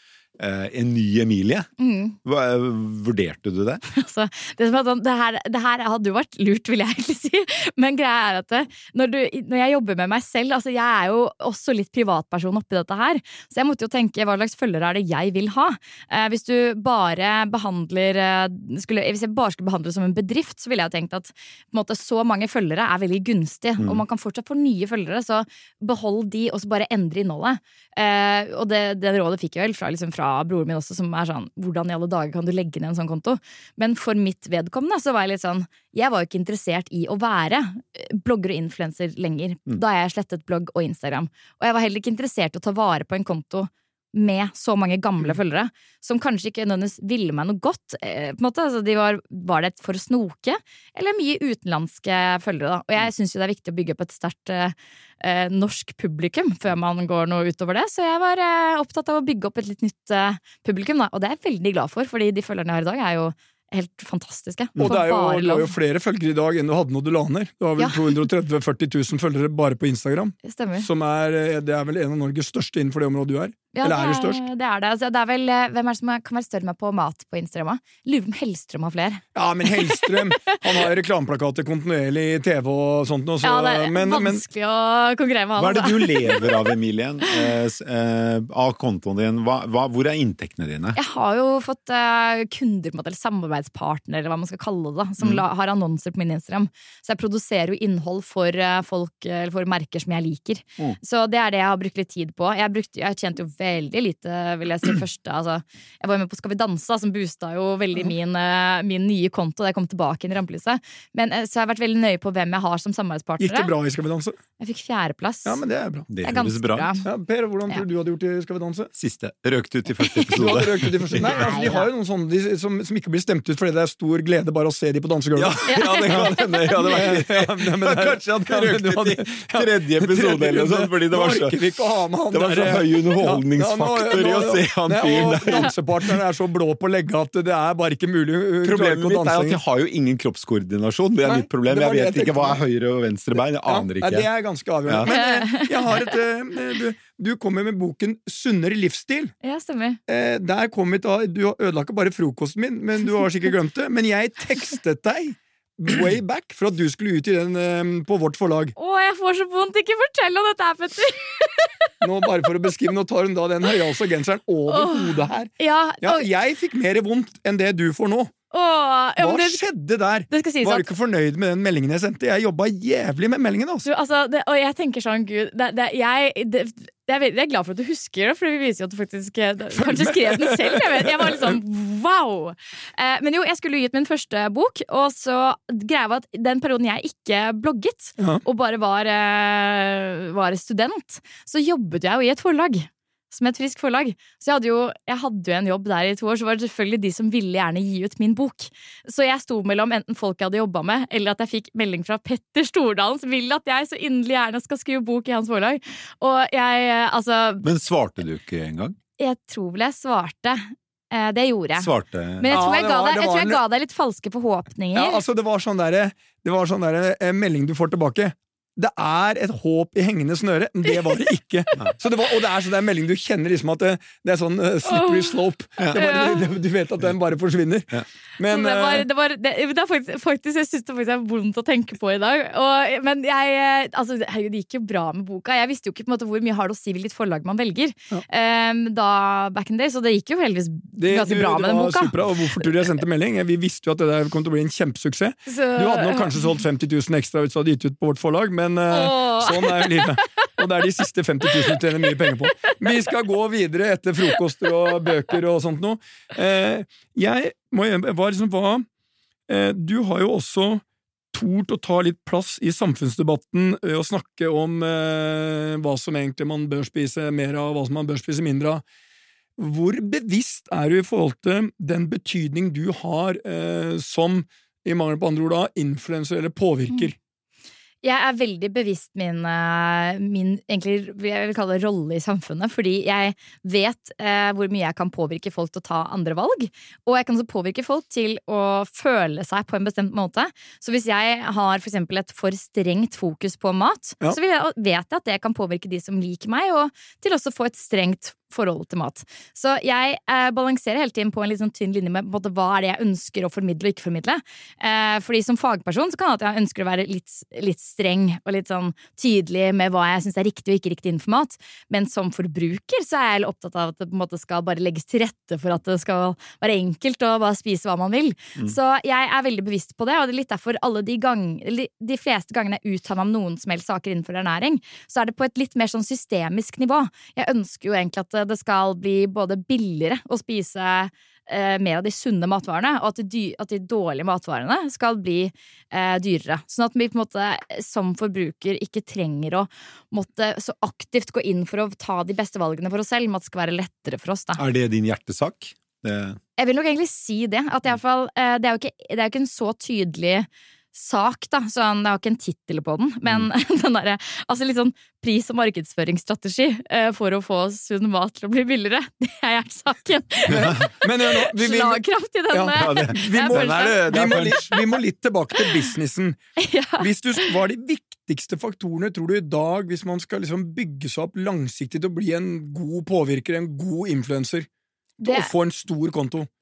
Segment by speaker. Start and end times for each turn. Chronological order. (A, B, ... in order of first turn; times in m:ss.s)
0:00.4-0:01.6 A
0:01.8-0:02.2 B
0:02.2-0:03.8 A
0:03.9-1:05.7 B
1:04.8-1:14.4 C
1:07.8-1:08.2 B
1:10.4-1:10.9 B
1:13.7-1:20.8 B
1:19.3-1:24.4 C
1:23.4-1:26.7 B
1:25.6-1:31.0 A
1:31.0-1:53.7 B
1:53.4-1:54.4 C
1:54.6-1:55.6 B
1:55.5-1:56.1 C
1:56.1-1:57.0 A
1:56.2-1:57.0 B
1:57.0-1:58.9 C
1:59.0-2:01.8 A
2:00.1-2:00.4 B
2:00.3-2:06.2 C
2:01.2-2:01.9 B
2:05.4-2:11.6 A
2:05.7-2:07.1 B
2:06.8-2:19.6 C
2:12.3-2:15.7 A
2:18.6-2:24.3 A
2:21.2-2:22.6 C
2:23.7-2:29.3 C
2:25.0-2:26.2 B
2:29.4-2:30.0 B
2:30.1-2:38.8 C
2:38.8-2:41.9 B
2:42.0-2:48.3 C
2:44.7-2:46.3 B
2:48.5-2:49.6 B
2:49.2-2:53.8 C
2:50.3-2:50.9 B
2:53.8-3:27.7 B
2:59.8-3:01.6 C
3:27.6-3:29.0 A
3:29.2-3:35.2 B
3:31.8-3:32.5 A
3:32.5-3:33.6 C
3:34.9-3:49.0 C
3:41.7-3:42.0 B
3:44.8-3:46.4 B
3:48.5-4:02.1 B
4:01.0-4:18.8 C
4:05.5-4:06.6 B
4:08.9-4:10.5 B
4:12.6-4:13.0 B
4:14.8-4:15.2 B
4:19.5-4:28.8 C
4:29.6-4:37.1 C
4:38.0-5:44.6 B
5:44.6-5:46.4 A
5:46.6-6:04.8 B
6:00.5-6:06.4 C
6:02.8-6:04.7 A
6:05.6-6:05.8 B
6:06.6-6:07.5 B
6:07.0-6:14.7 C
6:15.2-6:15.5 B
6:15.2-6:16.5 C